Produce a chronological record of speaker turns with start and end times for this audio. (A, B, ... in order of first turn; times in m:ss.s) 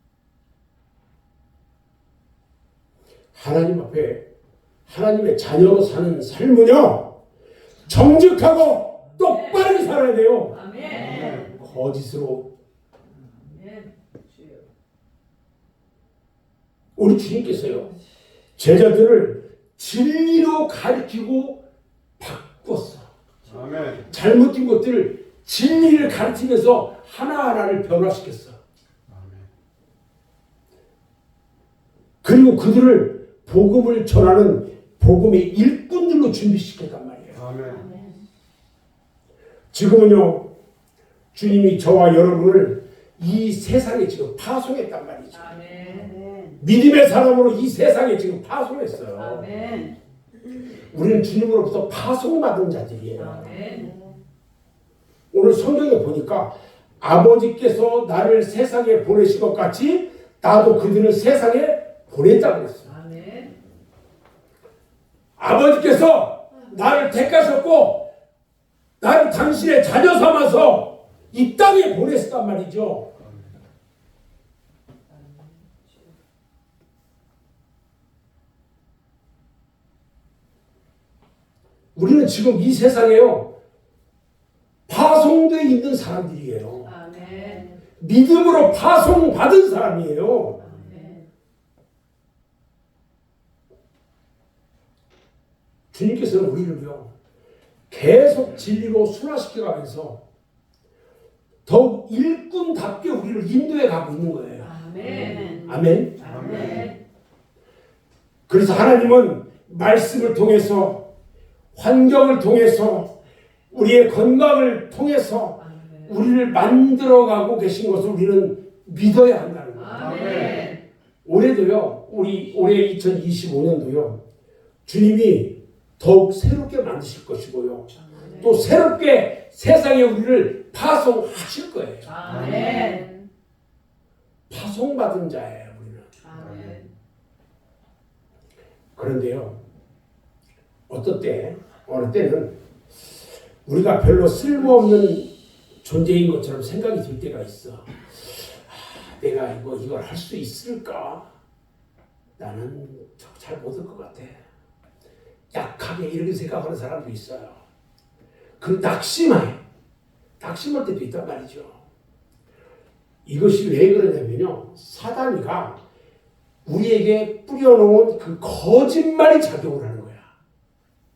0:03.3-0:04.2 A
0:04.9-0:07.1 A
0:07.9-0:10.6 A
0:09.1-0:09.7 B
0:10.5-0:11.4 B
0:10.9-0:11.5 C
0:11.4-0:12.5 A
0:13.2-0:14.6 B
0:17.0-0:17.9 A
0:18.6-0:21.6 A
0:22.2-0:23.1 A
0:23.4-0:24.0 C
0:24.1-0:28.6 A
0:29.1-0:29.5 C
0:32.2-0:37.4 A
0:37.3-0:38.0 C
0:39.7-0:40.5 A
0:41.3-0:45.5 A
0:45.3-0:46.2 B
0:46.6-0:49.5 A
0:49.2-0:49.9 B
0:50.9-0:53.6 A
0:53.2-0:54.0 B
0:55.3-1:02.9 A
1:02.8-1:03.6 B
1:05.4-1:08.0 A
1:09.0-1:13.1 A
1:15.1-1:16.1 B
1:21.9-1:23.5 A
1:24.9-1:26.9 A
1:26.8-1:27.7 B
1:28.0-1:30.7 A
1:30.6-1:31.2 B
1:35.9-1:37.1 A
1:37.9-1:40.2 A
1:41.6-1:44.7 A
1:44.6-1:45.6 B
1:45.4-1:46.6 A
1:46.2-1:47.0 B
1:46.2-1:46.9 C
1:48.5-1:51.0 A
1:51.7-1:53.1 A
1:53.7-2:00.5 A
1:55.6-1:56.2 B
1:59.7-2:00.8 B
2:00.0-2:00.7 C
2:01.2-2:04.2 A
2:04.8-2:12.1 A
2:08.0-2:08.6 B
2:12.0-2:13.1 B
2:12.2-2:12.9 C
2:14.5-2:16.1 A
2:16.2-2:16.8 B
2:16.3-2:16.8 C
2:19.0-2:19.6 A
2:20.9-2:22.5 A
2:23.6-2:25.3 A
2:25.8-2:31.2 A
2:32.4-2:34.4 A
2:35.5-2:37.6 A
2:38.6-2:39.6 A
2:40.4-2:41.8 A
2:43.2-2:45.8 A
2:46.6-2:50.3 A